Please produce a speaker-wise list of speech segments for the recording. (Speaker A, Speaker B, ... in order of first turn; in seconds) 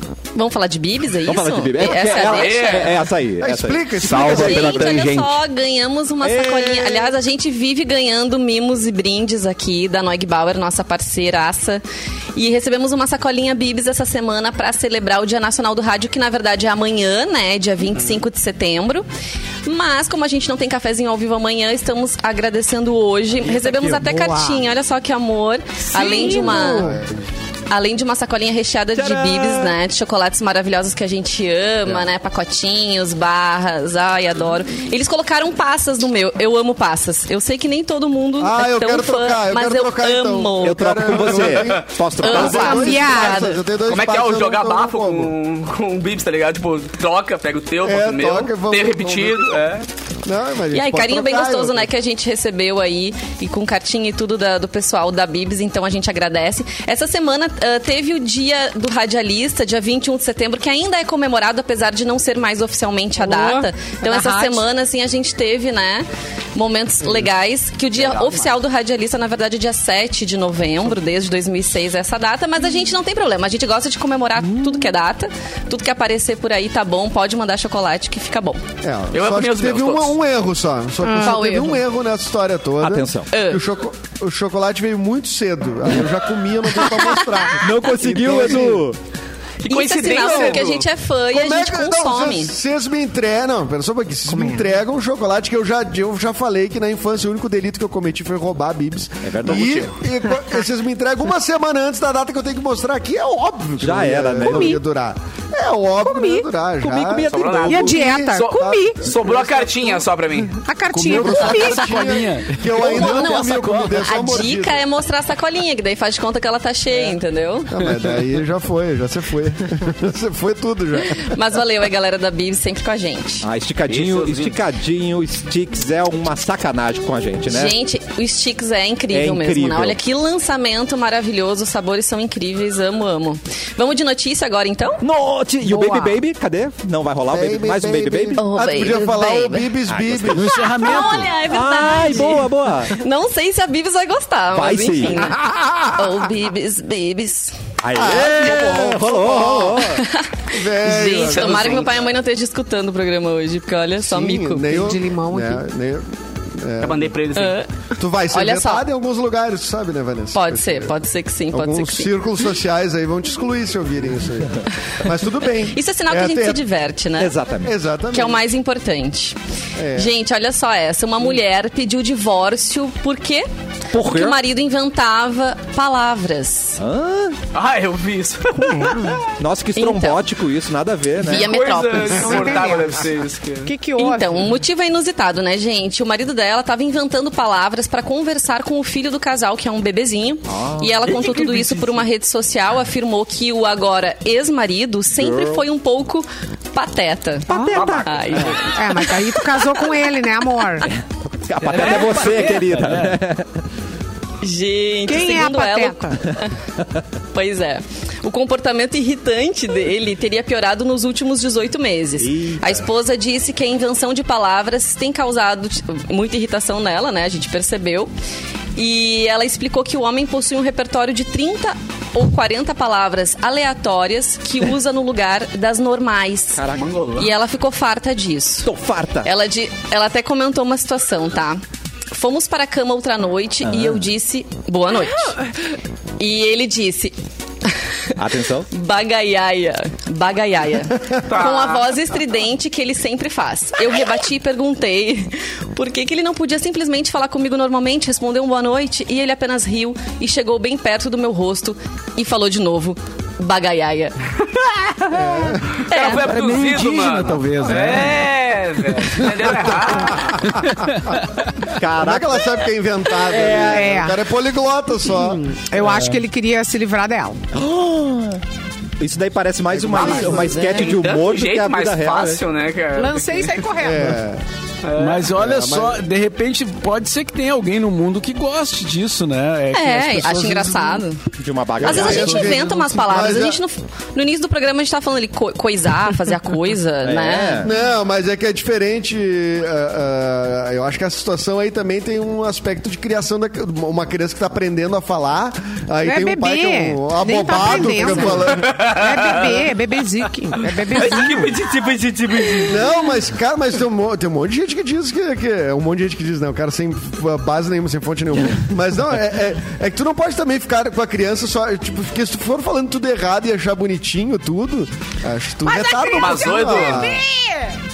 Speaker A: 0.3-2.9, 4.0-11.8, 12.3-19.1, 19.6-27.0, 27.7-41.4, 42.2-43.6, 50.7-78.6, 81.1-81.8, 83.3-83.6, 86.8-87.5, 89.6-92.5, 112.8-117.8, 121.2-123.5, 127.5-135.0, 138.3-139.7, 140.8-145.4, 145.9-147.5, 149.9-154.8, 157.3-157.7, 158.3-158.8, 160.3-162.1, 165.7-167.3, 168.1-169.3, 169.9-176.8, 179.8-180.2, 181.2-182.7, 183.9-199.9, 204.4-206.5, 207.3-218.1, 218.8-226.6, 227.1-228.7, 229.2-231.6, 232.1-235.4, 236.2-237.1, 238.7-254.1, 255.9-256.3, 279.7-281.2, 281.8-287.7
Speaker B: 1.2-5.2, 6.2-7.1, 28.9-29.8, 40.6-42.9, 82.8-83.3, 87.6-89.0, 99.2-99.9, 103.8-104.8, 106.8-107.9, 123.4-127.7, 129.1-130.0, 135.0-138.4, 139.9-140.5, 141.4-142.9, 144.5-145.3, 147.8-150.0, 167.2-167.7, 173.9-174.4, 176.8-177.4, 179.4-181.5, 190.5-191.2, 195.1-195.7, 197.6-198.4, 200.8-203.6, 212.2-212.8, 226.5-226.9, 228.6-229.3, 233.6-234.1, 238.2-238.7, 261.7-262.6, 263.2-264.0, 267.5-268.4, 269.0-272.4, 281.4-282.5, 287.0-287.7
Speaker C: 1.9-3.0, 4.0-4.8, 43.9-49.9, 68.0-68.5, 79.1-80.2, 89.6-90.8, 99.5-99.9, 107.2-110.6, 123.9-124.5, 151.3-152.1, 156.8-157.6, 177.5-179.2, 181.3-183.7, 191.2-191.5, 197.7-198.6, 201.8-202.3, 226.7-227.3, 241.3-241.9, 254.6-254.9, 255.9-260.4, 269.9-273.7, 274.8-275.3, 298.3-299.7, 300.6-302.9, 316.1-317.1
Speaker D: 3.4-5.0, 26.6-26.9, 38.4-45.3, 47.8-49.6, 50.2-51.9, 78.8-88.8, 90.1-90.7, 91.3-110.0, 111.1-114.8, 117.7-121.3, 137.3-140.6, 147.9-149.9, 150.5-152.0, 154.0-157.2, 158.0-160.9, 161.5-166.6, 167.6-168.4, 169.8-170.1, 255.1-255.8, 259.7-260.6, 261.9-265.4, 269.7-270.7, 273.8-274.4, 275.3-276.0, 281.8-283.6, 287.6-298.9, 302.6-317.2
Speaker E: 24.0-24.6, 25.9-27.0, 42.3-43.5, 63.2-64.7, 81.0-81.4, 94.3-94.7, 104.4-104.8, 106.0-106.5, 107.7-109.1, 110.5-112.2, 135.6-136.1, 154.7-155.6, 178.5-179.2, 182.1-183.1, 183.6-184.6, 197.5-198.0, 198.7-200.9, 205.1-206.2, 263.6-264.2, 265.1-267.4, 272.9-274.2, 296.0-301.6, 315.6-317.8
Speaker F: 110.9-114.1, 140.3-141.3, 201.6-203.2, 256.1-258.3, 260.5-261.2, 265.8-266.2, 274.9-281.0, 281.9-282.6